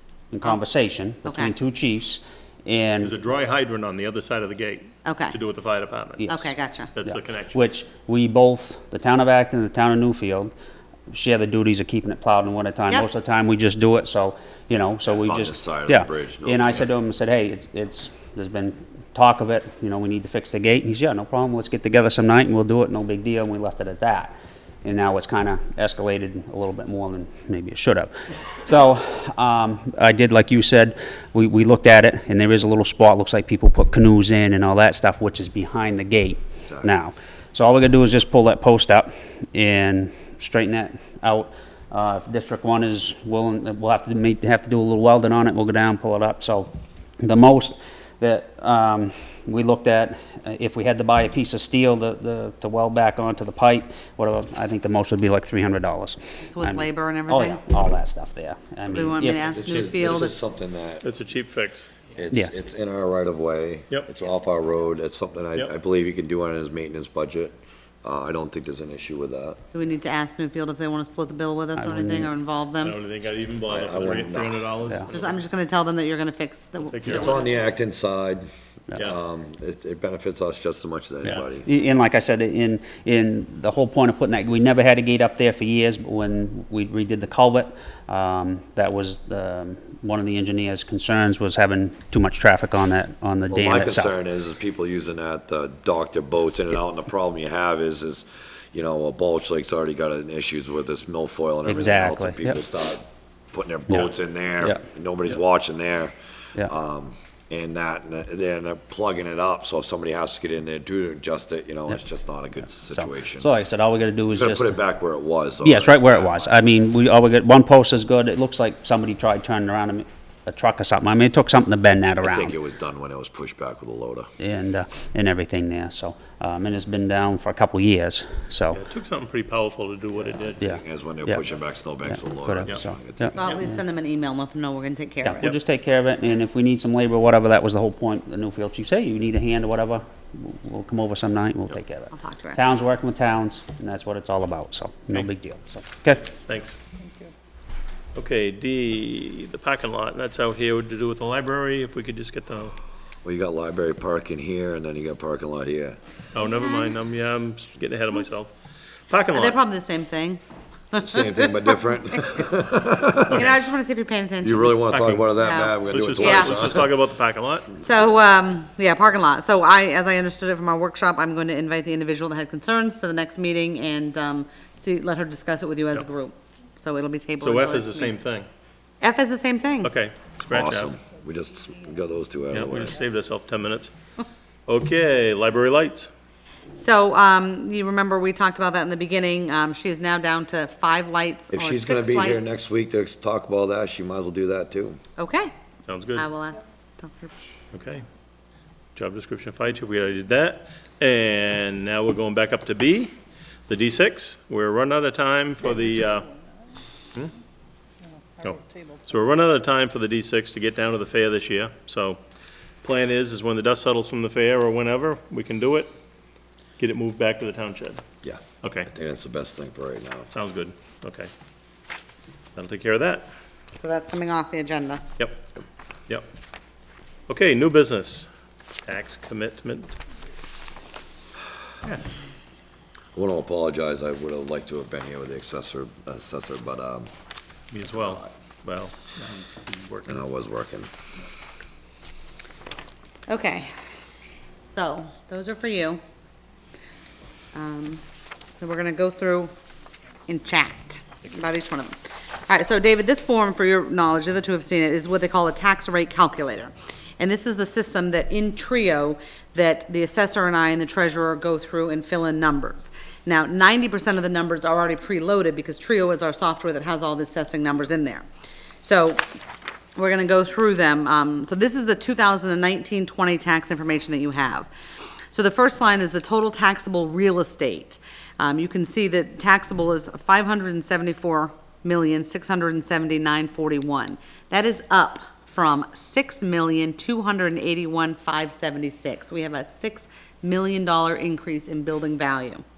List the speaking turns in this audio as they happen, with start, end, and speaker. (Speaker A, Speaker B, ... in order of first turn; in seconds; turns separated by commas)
Speaker A: 0.3-3.1, Speaker B: 1.2-1.5, Speaker C: 3.0-6.4, Speaker B: 5.0-5.4, Speaker A: 6.2-6.5, Speaker B: 6.3-6.9, Speaker C: 6.9-7.6, Speaker A: 7.0-10.5, Speaker A: 11.1-59.4, Speaker D: 15.1-16.9, Speaker D: 36.7-36.9, Speaker B: 56.5-57.8, Speaker B: 58.9-60.4, Speaker D: 59.5-61.0, Speaker C: 61.0-62.0, Speaker D: 62.1-69.6, Speaker B: 69.7-73.0, Speaker A: 71.8-72.3, Speaker C: 72.8-75.5, Speaker D: 73.7-74.7, Speaker B: 75.1-77.6, Speaker C: 76.9-77.4, Speaker D: 77.0-81.7, Speaker A: 81.2-94.2, Speaker D: 93.5-113.5, Speaker A: 101.7-102.6, Speaker A: 103.9-104.8, Speaker A: 112.9-114.8, Speaker D: 114.4-116.7, Speaker A: 115.6-122.5, Speaker D: 122.2-124.3, Speaker A: 124.4-128.8, Speaker C: 128.7-130.6, Speaker D: 130.2-133.6, Speaker A: 130.6-131.4, Speaker A: 132.1-133.8, Speaker B: 133.4-135.6, Speaker A: 135.2-146.3, Speaker B: 142.1-142.6, Speaker C: 146.2-146.8, Speaker C: 148.2-152.8, Speaker D: 153.2-156.0, Speaker C: 156.3-158.6, Speaker C: 159.1-159.6, Speaker B: 159.3-162.4, Speaker D: 161.0-163.6, Speaker B: 163.3-166.6, Speaker D: 164.4-166.9, Speaker C: 164.9-165.3, Speaker C: 165.8-167.7, Speaker B: 167.8-178.1, Speaker C: 177.4-178.5, Speaker B: 179.0-179.9, Speaker C: 179.8-180.9, Speaker D: 180.5-183.0, Speaker C: 182.5-183.9, Speaker C: 184.7-186.1, Speaker B: 186.7-192.5, Speaker D: 191.5-195.0, Speaker B: 195.2-195.5, Speaker C: 195.9-196.3, Speaker B: 196.2-197.3, Speaker C: 197.7-198.1, Speaker C: 198.9-203.2, Speaker C: 203.7-206.3, Speaker C: 208.4-212.2, Speaker C: 212.8-215.9, Speaker C: 216.8-218.0, Speaker D: 218.2-220.3, Speaker C: 218.6-218.9, Speaker C: 220.3-221.3, Speaker C: 222.6-223.3, Speaker B: 223.8-225.1, Speaker C: 225.2-225.5, Speaker C: 227.3-228.3, Speaker C: 228.9-230.0, Speaker C: 231.8-232.2, Speaker D: 233.2-237.1, Speaker C: 237.7-240.3, Speaker D: 240.1-240.9, Speaker B: 243.3-243.7, Speaker B: 244.7-246.0, Speaker B: 247.5-248.0, Speaker B: 248.6-249.5, Speaker B: 250.3-252.0, Speaker B: 252.5-268.3, Speaker B: 268.8-269.2, Speaker B: 270.0-274.7, Speaker B: 275.3-292.6